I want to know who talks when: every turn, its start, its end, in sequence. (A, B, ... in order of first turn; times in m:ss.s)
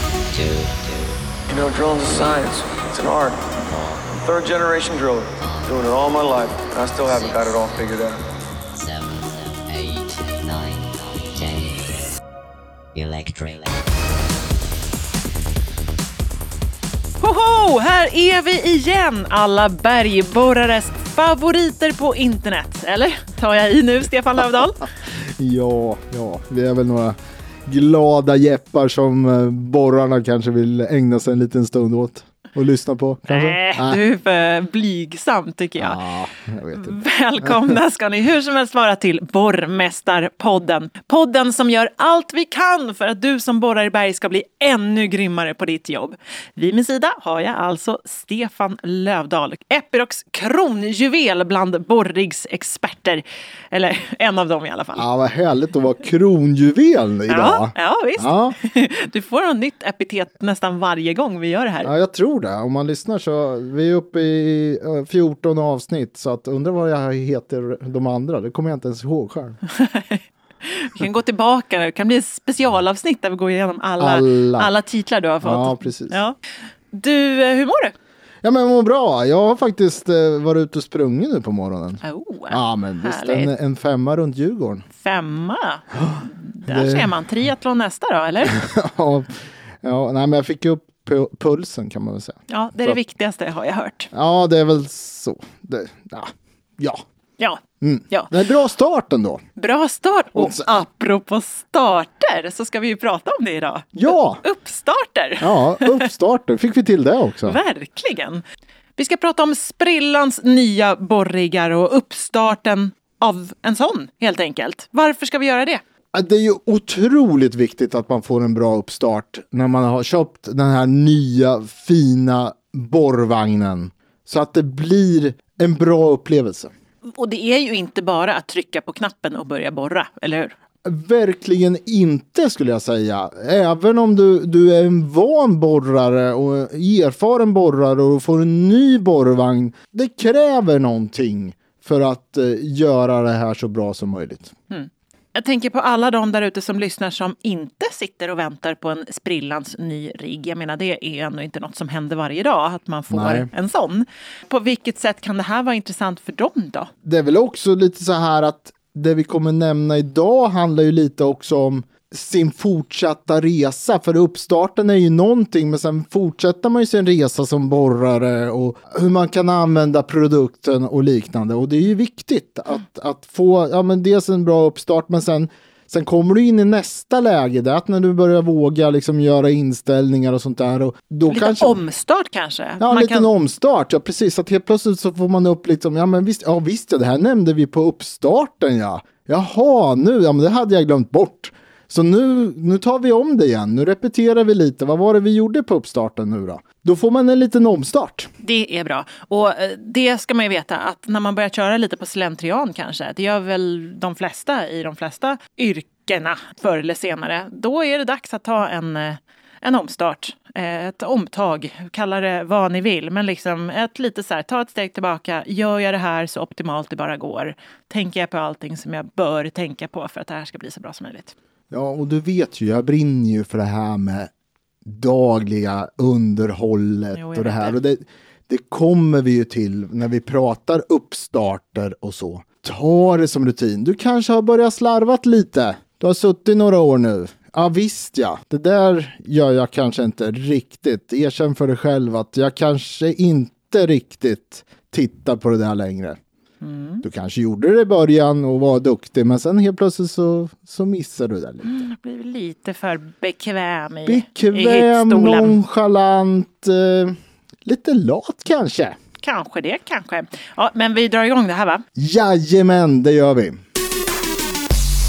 0:00.3-0:01.2 A
0:01.5-0:03.5 B
0:04.1-0:08.2 B
0:08.7-0:12.1 A
0:12.9-0:13.8 A
0:17.2-0:24.9 C
0:25.2-0:34.0 D
0:33.3-0:36.0 C
0:35.8-0:37.7 D
0:36.7-0:55.0 C
0:55.0-0:58.6 D
0:57.3-1:01.9 C
1:01.8-1:09.6 D
1:09.7-1:16.4 C
1:14.0-1:14.7 D
1:15.4-1:16.2 D
1:16.9-1:17.9 C
1:18.4-1:24.8 D
1:22.0-1:23.5 C
1:25.0-1:28.6 C
1:25.9-1:27.1 D
1:28.4-1:33.0 D
1:32.5-1:34.1 C
1:34.1-1:37.0 D
1:37.4-1:38.3 C
1:37.8-1:39.4 D
1:39.6-1:46.1 C
1:40.3-1:40.7 D
1:43.9-1:44.4 D
1:45.4-1:47.6 D
1:47.4-1:48.4 C
1:49.0-1:55.8 C
1:56.1-2:06.7 D
2:07.1-2:10.5 C
2:10.8-2:24.5 D
2:24.7-2:36.9 C
2:33.1-2:33.5 D
2:37.0-3:01.8 D
3:01.3-3:03.3 C
3:02.8-3:18.3 D
3:18.4-3:41.3 C
3:41.7-3:44.3 D
3:44.8-4:06.2 D
3:47.1-3:47.8 C
4:06.6-4:07.0 C
4:07.0-4:11.7 D
4:11.6-4:15.6 C
4:14.0-4:19.0 D
4:19.2-4:21.8 C
4:22.0-4:23.6 D